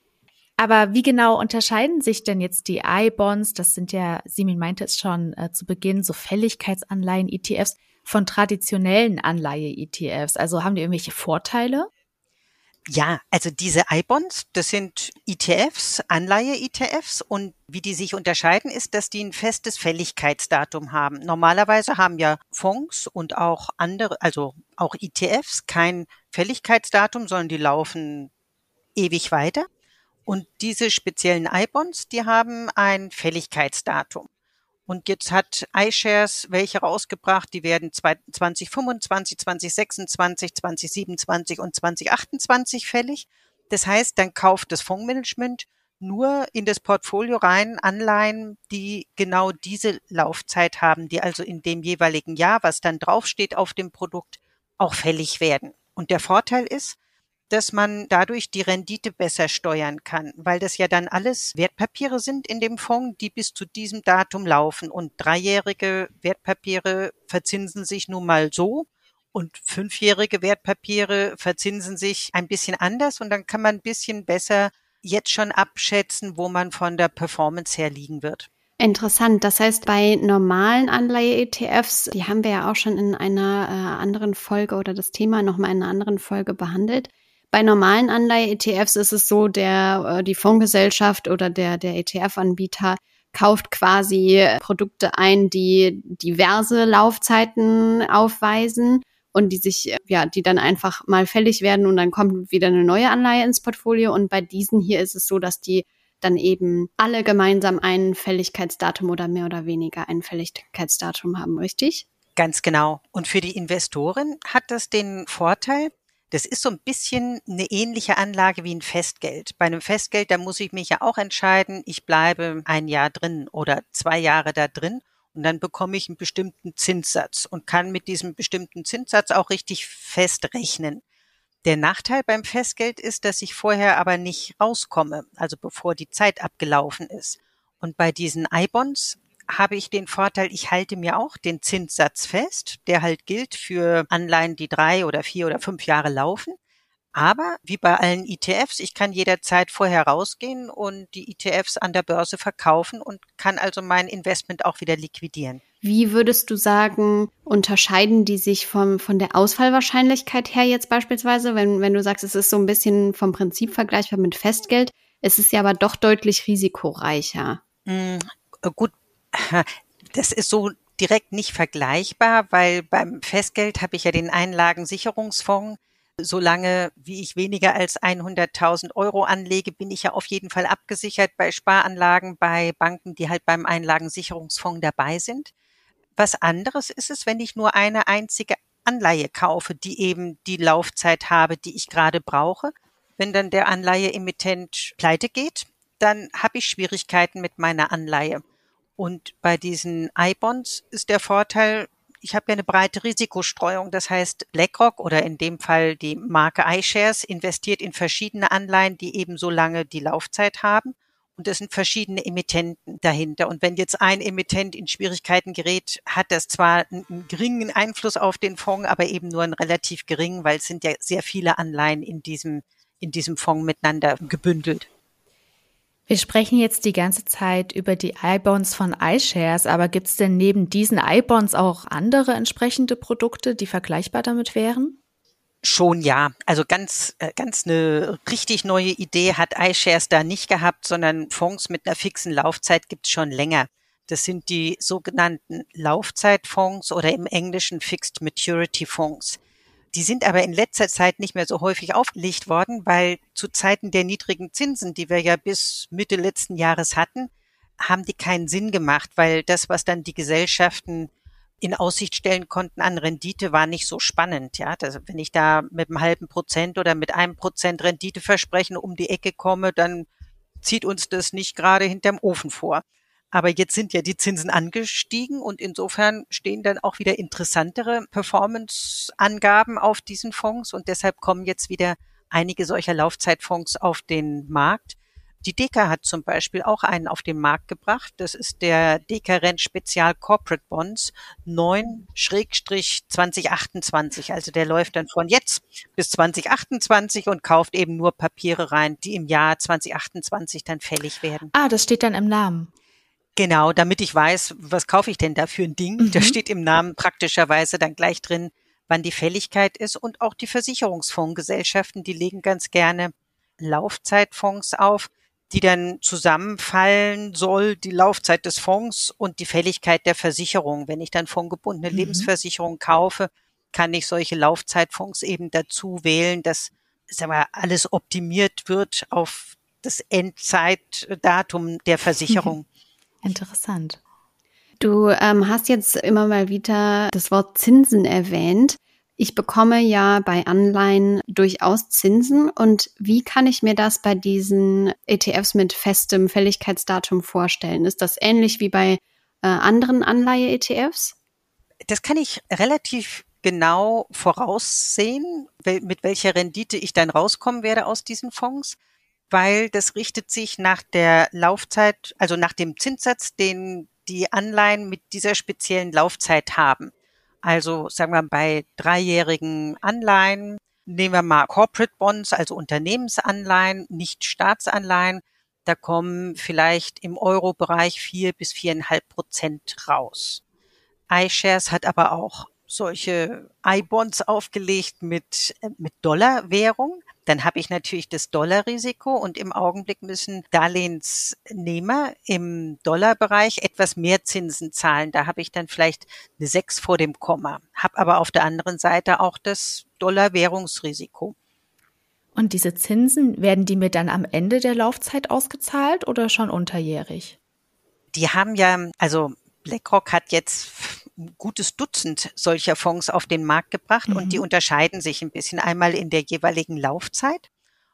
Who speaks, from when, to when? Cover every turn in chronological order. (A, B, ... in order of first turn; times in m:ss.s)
0:00.6-0:11.9 A
0:12.9-0:28.3 B
0:29.0-0:29.7 B
0:30.3-0:34.3 B
0:34.9-0:57.0 B
0:57.5-1:18.5 B
1:18.8-1:52.0 C
1:52.4-2:11.0 B
2:11.6-2:26.6 B
2:27.2-2:35.6 B
2:35.8-2:47.6 C
2:47.9-3:05.5 B
3:06.2-3:18.4 B
3:19.0-3:44.9 B
3:46.1-3:55.0 A
3:55.6-4:09.4 B
4:09.9-4:17.3 B
4:17.8-4:30.1 B
4:30.6-5:01.5 B
5:01.5-5:02.7 A
5:03.4-5:32.6 B
5:06.0-5:06.4 A
5:21.9-5:22.3 A
5:32.3-5:32.6 A
5:33.2-5:34.0 A
5:34.8-5:51.1 C
5:51.9-5:58.8 B
5:59.3-6:06.9 B
6:07.4-6:20.4 B
6:21.1-6:41.3 B
6:42.4-6:47.4 A
6:48.1-6:57.4 B
6:54.1-6:54.4 A